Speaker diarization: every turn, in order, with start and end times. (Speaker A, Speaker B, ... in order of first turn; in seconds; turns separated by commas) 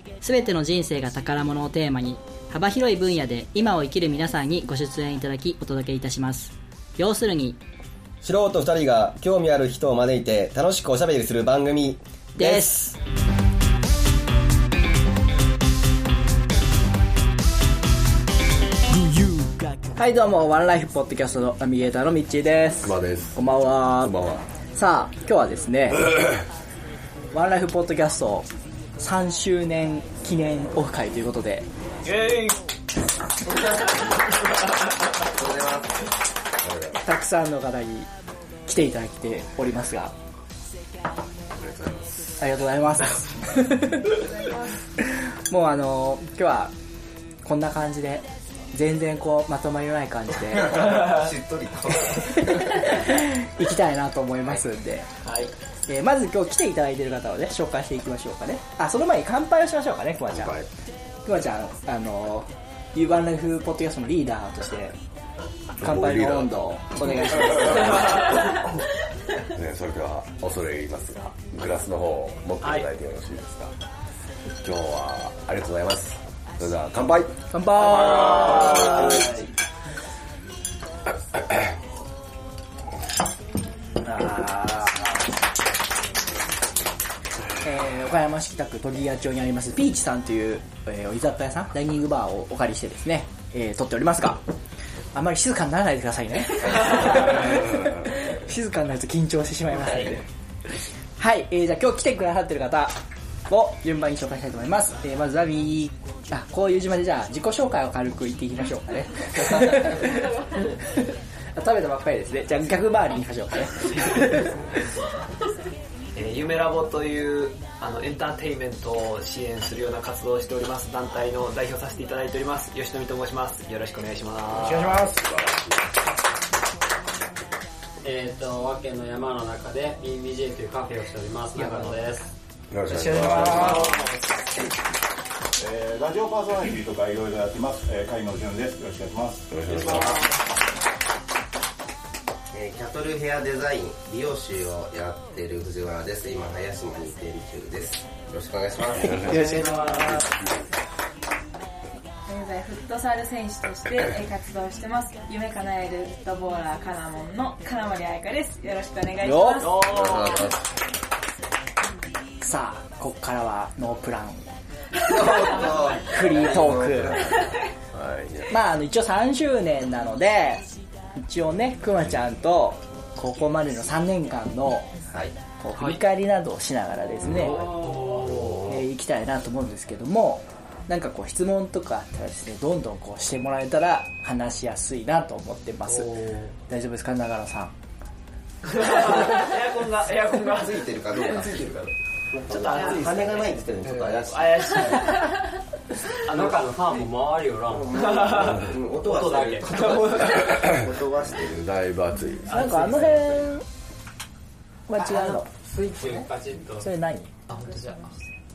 Speaker A: 0.2-7.6, Speaker B: 8.2-12.0, Speaker A: 12.4-13.0, Speaker C: 12.4-12.8, Speaker C: 19.9-24.1, Speaker D: 22.8-24.4, Speaker C: 24.7-26.1, Speaker C: 27.3-28.5, Speaker C: 29.0-31.7, Speaker E: 32.0-32.6, Speaker F: 35.3-36.1, Speaker D: 36.6-36.9, Speaker C: 37.0-38.1, Speaker C: 38.7-40.1, Speaker D: 41.6-42.1, Speaker C: 42.4-44.1, Speaker G: 44.1-44.8, Speaker C: 45.0-46.7, Speaker C: 47.4-51.0, Speaker F: 50.5-52.8, Speaker C: 52.5-55.1, Speaker E: 55.2-55.5, Speaker C: 55.9-60.6, Speaker D: 60.3-60.7, Speaker C: 61.2-65.0, Speaker C: 65.8-68.3, Speaker D: 65.8-66.5, Speaker D: 69.5-73.7, Speaker E: 72.6-72.9, Speaker D: 74.5-77.4, Speaker C: 77.5-79.4, Speaker C: 84.0-85.2, Speaker C: 87.6-94.4, Speaker C: 95.1-100.2, Speaker C: 101.2-114.5, Speaker E: 116.2-125.0, Speaker C: 124.6-125.2, Speaker D: 125.0-125.7, Speaker H: 128.0-132.3, Speaker C: 131.6-131.9, Speaker D: 132.7-133.9, Speaker C: 132.9-133.9, Speaker E: 133.4-134.0, Speaker H: 133.6-134.1, Speaker I: 135.6-139.5, Speaker D: 139.5-140.2, Speaker E: 139.7-140.3, Speaker F: 139.8-140.2, Speaker F: 142.5-150.1, Speaker D: 149.0-150.6, Speaker C: 149.1-150.3, Speaker G: 152.3-160.0, Speaker C: 159.2-159.7, Speaker E: 159.6-160.5, Speaker D: 160.0-160.6, Speaker C: 162.4-164.5, Speaker F: 165.1-167.4, Speaker D: 165.3-167.4, Speaker C: 166.0-167.2, Speaker D: 167.9-168.5, Speaker C: 168.5-174.9, Speaker C: 175.6-177.7, Speaker D: 177.3-177.6, Speaker E: 177.3-178.6, Speaker C: 178.6-186.1, Speaker E: 185.9-186.5, Speaker C: 186.7-187.7, Speaker E: 188.7-191.9, Speaker F: 190.4-194.9, Speaker E: 192.5-195.3, Speaker H: 196.2-198.3, Speaker E: 196.3-196.9, Speaker F: 197.7-201.5, Speaker E: 197.9-200.7, Speaker H: 199.2-199.6, Speaker D: 201.2-203.5, Speaker C: 202.5-203.6, Speaker E: 202.5-202.9, Speaker C: 204.9-205.5, Speaker H: 205.7-206.9, Speaker C: 206.8-207.3, Speaker E: 207.5-208.2